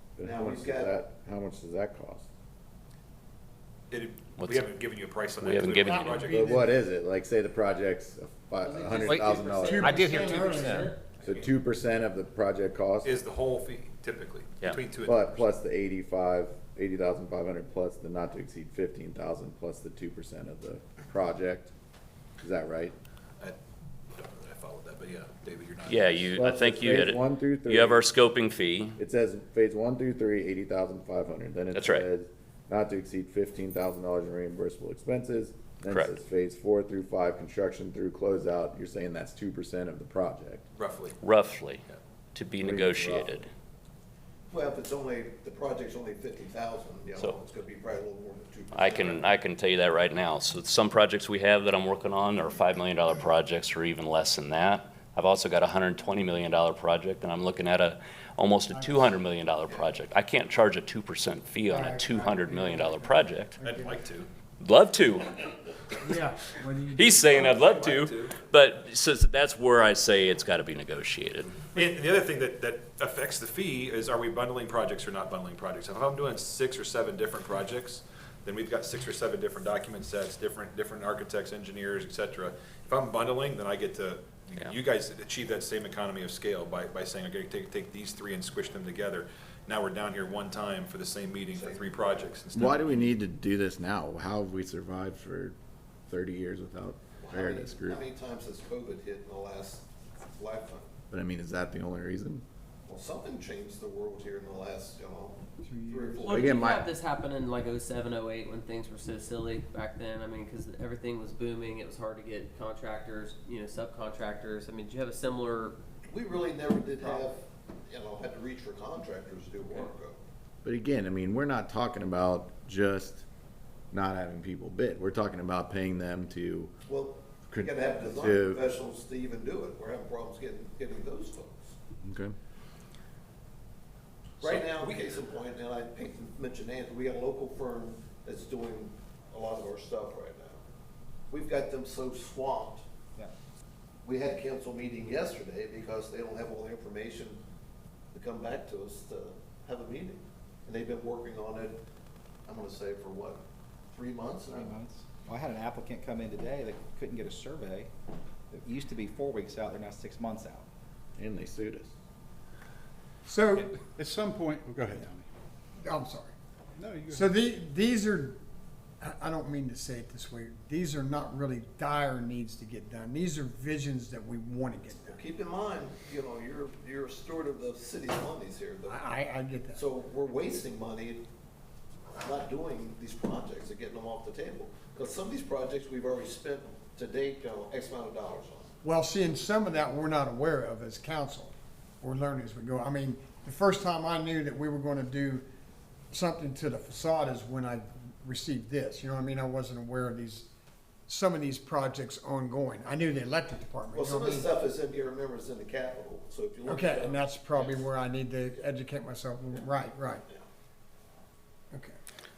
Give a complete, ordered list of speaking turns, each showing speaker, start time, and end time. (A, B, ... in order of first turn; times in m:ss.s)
0:00.2-0:02.3 A
0:00.2-0:01.0 B
0:03.9-0:06.5 C
0:04.4-0:04.7 D
0:05.4-0:06.3 D
0:05.7-0:06.8 E
0:06.2-0:13.1 A
0:08.6-0:11.1 F
0:09.5-0:10.9 E
0:09.8-0:10.8 G
0:13.0-0:15.5 C
0:15.0-0:21.7 A
0:22.4-0:23.0 A
0:24.1-0:26.4 C
0:25.9-0:29.0 D
0:26.4-0:28.1 A
0:29.0-0:40.6 A
0:31.7-0:32.1 D
0:35.9-0:36.1 D
0:40.8-0:41.2 C
0:41.2-0:41.8 D
0:42.3-0:43.5 D
0:42.6-0:43.5 A
0:44.5-0:49.3 B
0:48.7-1:03.6 D
0:58.7-0:59.1 E
1:01.7-1:04.0 E
1:03.6-1:04.3 C
1:04.6-1:06.1 D
1:06.0-1:07.7 E
1:07.0-1:11.6 D
1:07.3-1:08.4 C
1:11.7-1:33.1 C
1:31.5-1:32.3 B
1:32.5-1:35.6 A
1:36.1-1:38.0 A
1:37.2-1:40.9 B
1:41.1-1:42.4 A
1:42.9-1:46.5 B
1:45.6-1:46.4 E
1:46.2-1:55.8 F
1:46.3-1:46.9 A
1:56.1-2:00.2 B
2:00.6-2:03.2 A
2:03.9-2:06.7 A
2:06.9-2:11.8 B
2:07.5-2:08.6 A
2:12.0-2:12.3 A
2:14.4-2:15.0 C
2:14.4-2:20.6 B
2:21.3-2:22.8 B
2:24.0-2:27.4 B
2:28.1-2:31.8 B
2:32.5-2:34.8 B
2:34.5-2:37.9 H
2:38.5-2:40.6 H
2:41.2-2:41.9 A
2:43.3-2:43.7 E
2:44.0-2:45.0 G
2:45.8-2:46.3 E
2:46.8-2:47.2 G
2:47.1-2:48.4 E
2:49.0-2:55.2 E
2:55.1-2:59.0 B
2:58.9-2:59.8 E
2:59.7-3:01.2 B
3:02.2-3:08.7 B
3:08.8-3:15.4 E
3:16.1-3:20.5 E
3:21.1-3:24.5 E
3:23.9-3:27.9 B
3:26.7-3:30.2 E